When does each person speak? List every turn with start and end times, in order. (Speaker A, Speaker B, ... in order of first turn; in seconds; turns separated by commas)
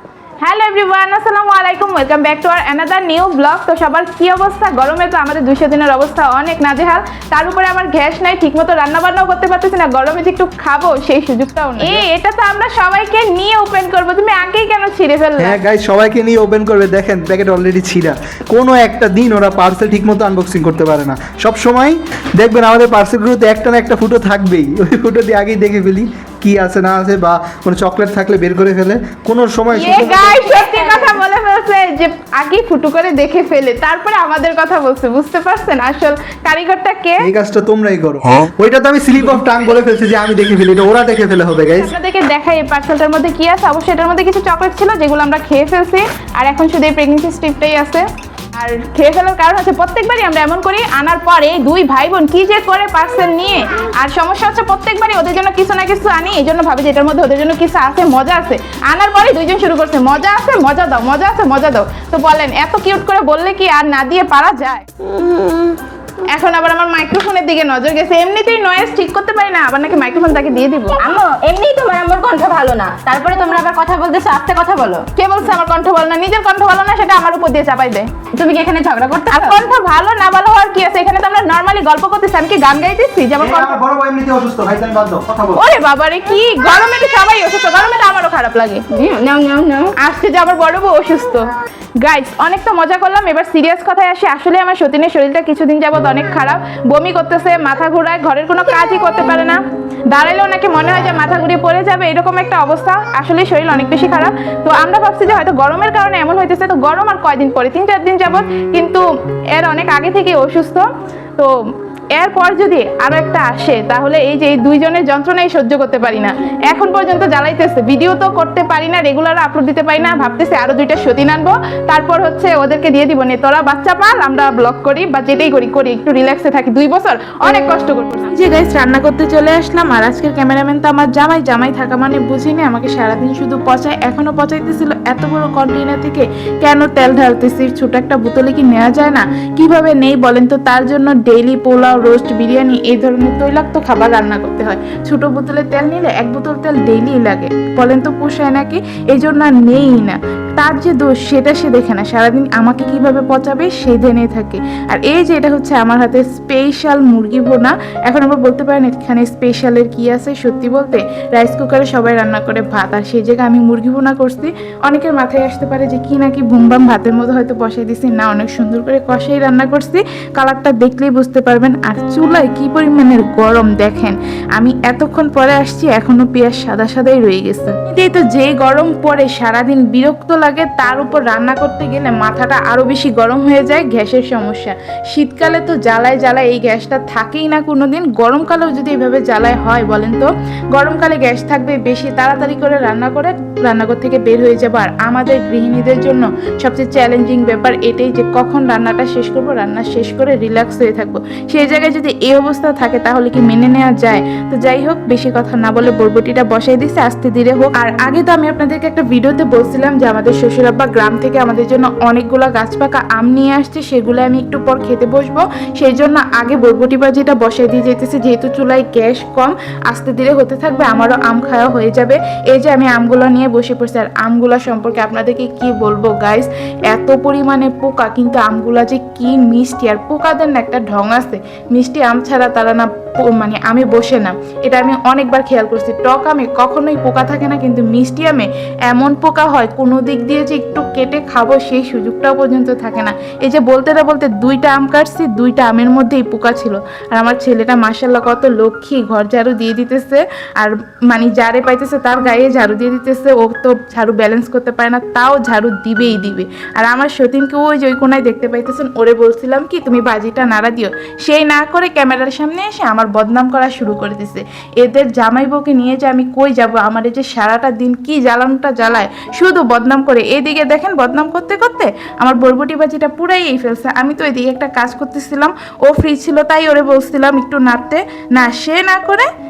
Speaker A: 0.4-15.6, Speaker B: 15.4-30.4, Speaker A: 29.7-37.3, Speaker C: 29.9-31.2, Speaker B: 37.2-41.9, Speaker A: 41.8-64.8, Speaker A: 66.3-71.0, Speaker C: 71.0-75.0, Speaker A: 75.2-78.1, Speaker C: 78.3-79.6, Speaker A: 79.3-83.8, Speaker B: 83.4-85.6, Speaker A: 85.5-88.8, Speaker C: 88.9-89.9, Speaker A: 90.0-91.5, Speaker A: 92.0-110.8, Speaker A: 112.2-279.3